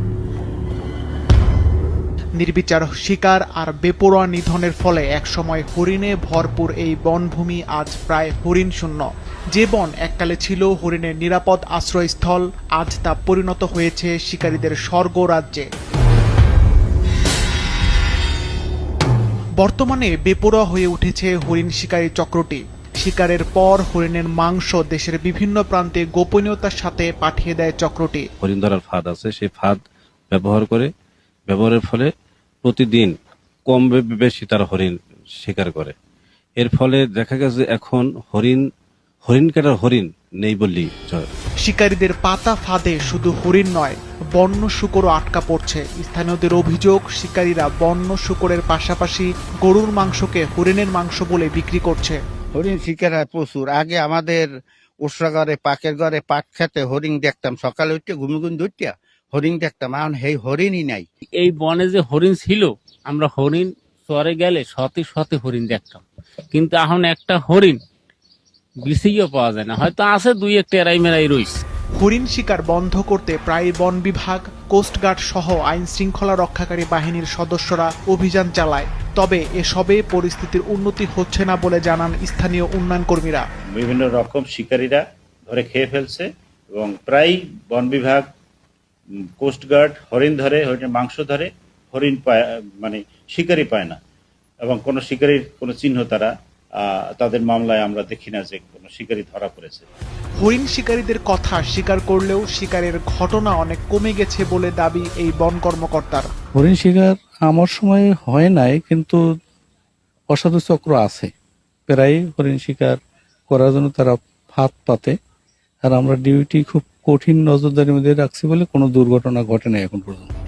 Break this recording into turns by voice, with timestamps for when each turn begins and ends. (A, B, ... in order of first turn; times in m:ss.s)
0:02.4-0:15.7 A
0:19.6-0:28.2 A
0:28.4-0:30.9 B
0:31.5-0:32.1 B
0:32.6-0:33.1 B
0:33.7-0:35.9 B
0:36.6-0:38.6 B
0:39.2-0:41.3 B
0:41.6-0:52.2 A
0:52.5-0:54.5 C
0:55.0-1:01.0 C
1:01.4-1:06.0 D
1:06.5-1:07.8 D
1:08.8-1:11.5 D
1:12.0-1:23.4 A
1:23.7-1:28.3 E
1:29.4-1:34.0 E
1:34.6-1:39.9 E
1:40.4-1:46.3 A
1:46.6-1:49.2 F
1:50.3-1:51.3 F
1:51.9-1:53.0 F
1:53.5-1:55.1 F
1:55.8-2:00.3 F